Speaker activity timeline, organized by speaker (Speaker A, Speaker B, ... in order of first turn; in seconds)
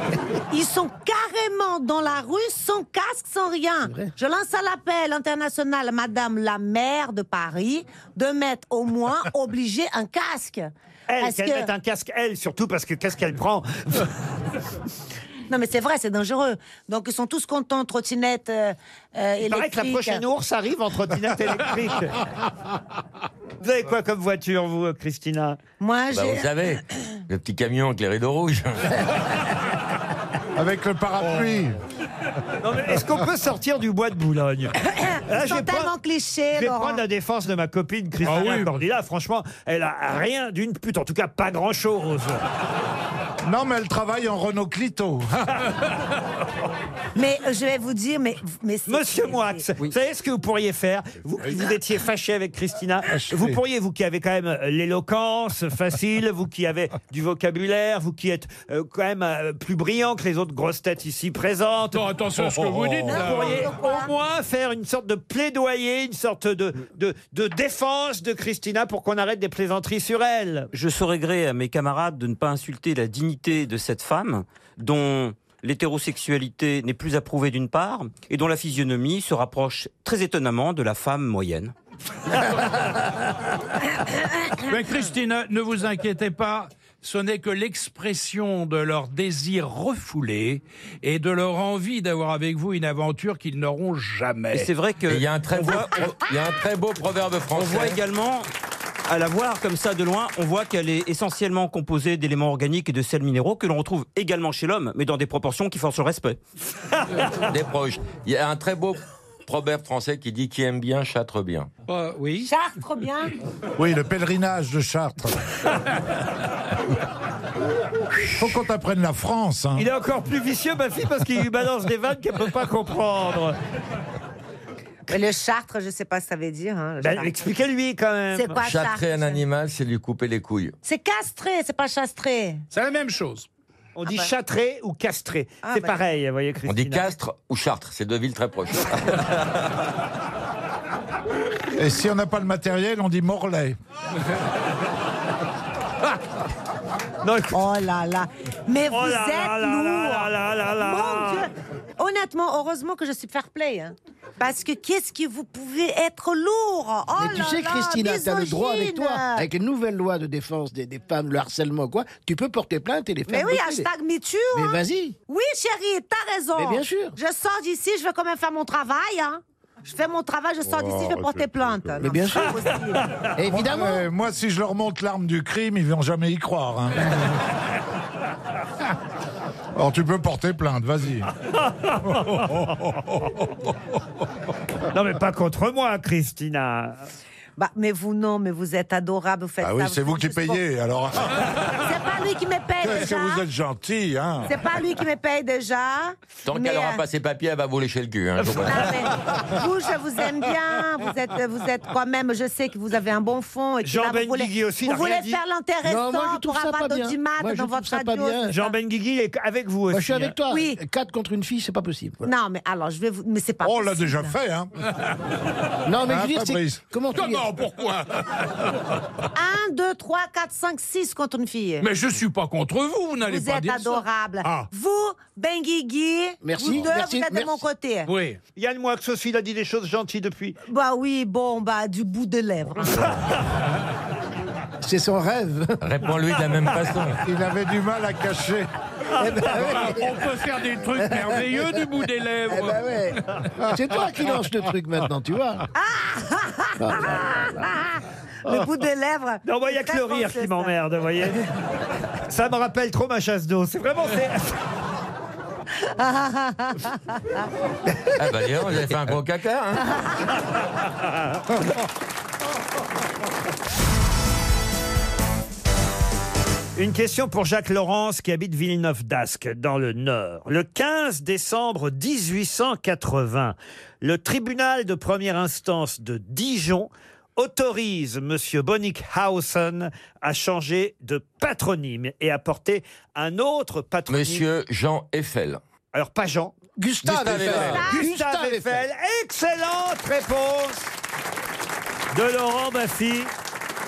Speaker A: 0.3-11.7, 15.5-20.2, 25.8-26.8, 34.8-37.0, 47.1-49.6, 63.1-64.1, 112.4-113.3, 125.1-127.3, 128.3-129.4, 130.8-132.7, 134.1-134.3, 135.6-136.0, 147.5-159.5, 163.3-173.2, 187.6-190.6, 191.8-193.4, 194.5-197.0, 198.5-208.7, 210.5-210.8, 212.2-214.3, 219.3-221.9, 223.2-228.1, 230.7-233.2, 245.7-250.7, 255.8-257.4
Speaker B: 11.1-14.1, 19.4-22.2, 23.6-25.6, 32.6-35.9, 36.5-42.4, 48.9-62.1, 63.1-70.7, 119.8-123.6, 127.0-128.6, 134.0-137.1, 147.2-147.6, 148.9-151.5, 181.6-182.7, 184.9-187.1, 203.8-205.4, 208.5-210.3, 228.6-230.6, 249.4-251.4, 252.2-254.6, 266.8-284.4, 285.9-286.6, 287.4-290.9, 292.1-293.3
Speaker C: 26.1-29.1, 95.1-98.0, 107.3-111.7, 128.6-130.8, 136.7-139.4, 196.4-199.0, 235.8-237.2, 258.2-260.0, 284.1-285.6, 287.0-288.0
Speaker D: 30.6-31.8, 43.4-45.6, 53.0-53.6, 62.4-63.5, 113.8-115.5, 118.3-119.9, 141.7-143.8, 170.6-172.1, 173.4-177.2, 179.8-181.3, 182.1-183.2, 189.6-191.7, 192.8-194.6, 213.6-214.7, 216.0-216.8, 237.2-238.7, 239.5-239.9
Speaker E: 31.2-31.5, 38.2-38.7, 61.9-63.7, 82.5-82.8, 84.6-94.7, 111.9-112.5, 132.7-133.5, 217.1-218.7, 221.8-224.7, 228.1-228.4, 239.5-243.4
Speaker F: 70.7-81.7, 94.5-96.0, 97.5-98.5, 99.1-106.4
Speaker G: 157.2-163.9, 164.5-165.2, 166.6-167.2, 172.0-172.6, 173.4-174.0, 205.8-208.6, 209.9-212.3, 215.9-217.6, 226.4-227.7, 234.8-235.8, 239.2-240.1, 240.9-241.8, 242.5-245.7, 246.8-247.7, 286.8-288.8